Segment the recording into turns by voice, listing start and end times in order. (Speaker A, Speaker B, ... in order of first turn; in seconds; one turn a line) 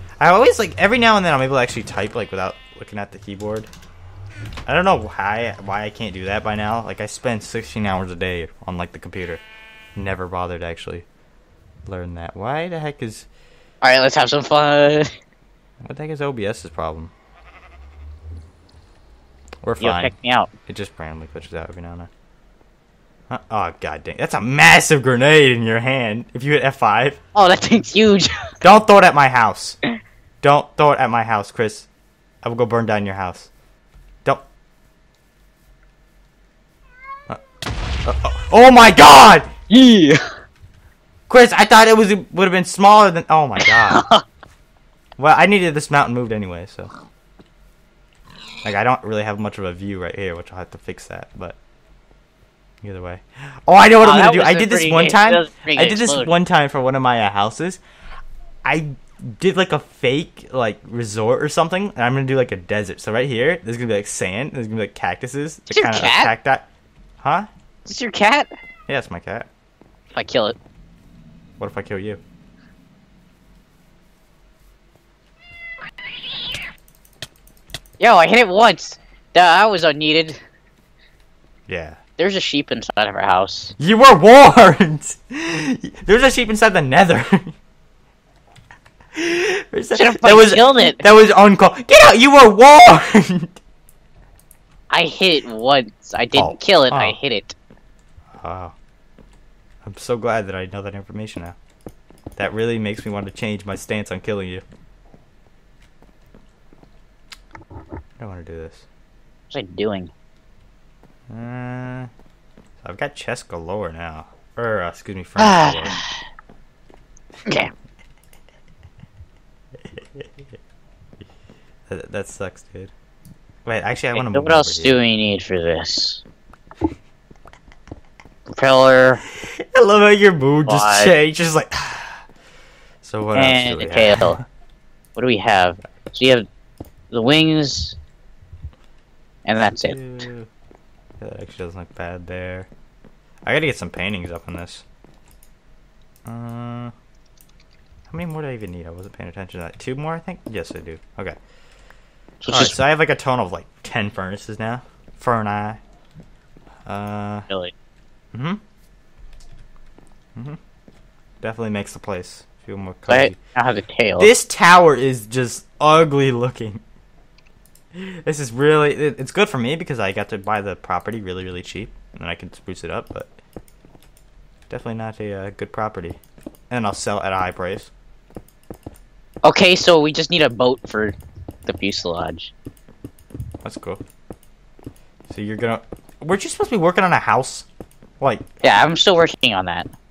Speaker A: 0.2-3.7
Speaker A: 4.7-9.4
Speaker A: 10.0-11.1
Speaker A: 11.9-13.3
Speaker B: 13.8-15.1
Speaker A: 15.8-17.1
Speaker A: 19.6-20.1
Speaker B: 19.8-20.5
Speaker A: 20.7-22.1
Speaker A: 23.3-27.2
Speaker B: 27.3-28.4
Speaker A: 28.6-29.8
Speaker A: 30.4-31.9
Speaker A: 32.4-33.5
Speaker A: 38.0-39.5
Speaker B: 39.7-40.2
Speaker A: 41.3-44.0
Speaker B: 43.6-44.2
Speaker A: 45.2-46.9
Speaker A: 48.6-51.6
Speaker A: 52.8-57.8
Speaker B: 54.0-56.4
Speaker A: 58.6-66.7
Speaker B: 65.7-66.3
Speaker A: 67.2-67.5
Speaker B: 67.9-68.5
Speaker A: 68.9-69.5
Speaker B: 70.1-70.6
Speaker A: 71.6-72.2
Speaker B: 78.0-80.4
Speaker A: 81.7-82.0
Speaker B: 82.2-83.7
Speaker A: 83.8-87.5
Speaker A: 89.2-93.6
Speaker B: 90.0-91.0
Speaker B: 94.9-97.5
Speaker A: 96.3-97.2
Speaker A: 98.4-98.7
Speaker A: 99.8-101.6
Speaker A: 102.4-104.6
Speaker A: 108.2-108.9
Speaker B: 109.5-110.1
Speaker A: 111.3-112.1
Speaker A: 112.8-116.0
Speaker B: 115.4-116.1
Speaker B: 117.5-117.7
Speaker A: 120.0-120.2
Speaker A: 121.9-122.9
Speaker A: 123.7-125.0
Speaker B: 124.1-126.2
Speaker B: 128.5-129.2
Speaker A: 129.8-132.2
Speaker B: 130.7-131.1
Speaker A: 133.0-134.4
Speaker B: 133.3-134.4
Speaker B: 135.2-136.5
Speaker B: 137.1-138.0
Speaker B: 139.5-140.0
Speaker A: 139.8-140.5
Speaker A: 141.2-142.7
Speaker A: 143.4-144.9
Speaker A: 146.2-146.9
Speaker A: 148.1-151.4
Speaker B: 152.4-152.8
Speaker A: 152.5-155.8
Speaker A: 156.9-157.5
Speaker A: 158.3-158.6
Speaker A: 161.4-163.4
Speaker B: 163.1-164.3
Speaker A: 164.2-166.8
Speaker A: 167.9-173.4
Speaker A: 174.7-176.2
Speaker A: 176.7-177.9
Speaker B: 179.4-181.2
Speaker B: 181.7-182.5
Speaker A: 183.6-184.0
Speaker A: 185.3-187.7
Speaker A: 188.2-188.5
Speaker B: 188.6-189.9